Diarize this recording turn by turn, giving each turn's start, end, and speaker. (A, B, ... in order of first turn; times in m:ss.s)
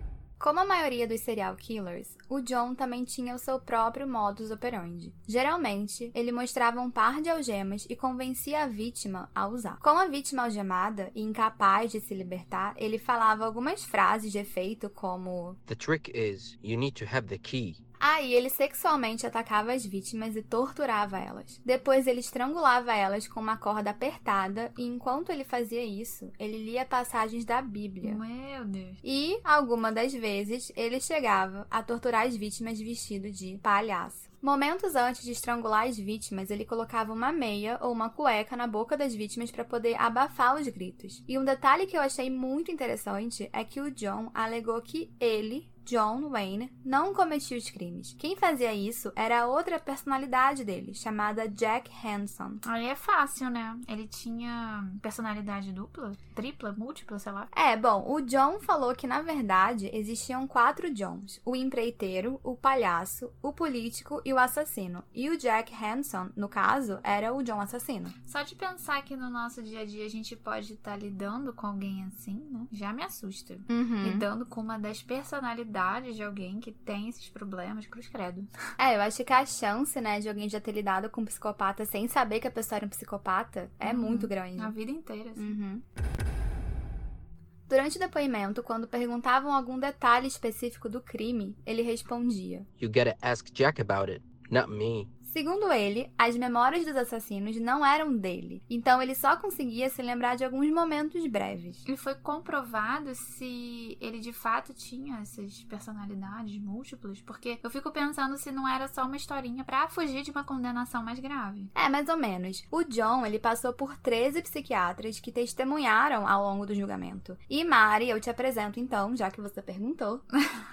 0:00.4-0:15.6 A
0:15.7-0:17.8 B
0:18.0-0:28.2 A
0:28.0-0:29.0 C
0:29.0-0:52.6 A
0:52.6-0:57.5 C
0:57.5-1:08.1 A
1:08.2-1:18.5 C
1:13.7-1:14.3 A
1:18.8-1:24.7 A
1:23.8-1:25.6 C
1:25.4-1:25.8 A
1:27.7-1:32.7 A
1:32.8-1:35.1 B
1:35.2-1:41.8 A
1:41.9-1:51.7 C
1:51.8-2:00.2 A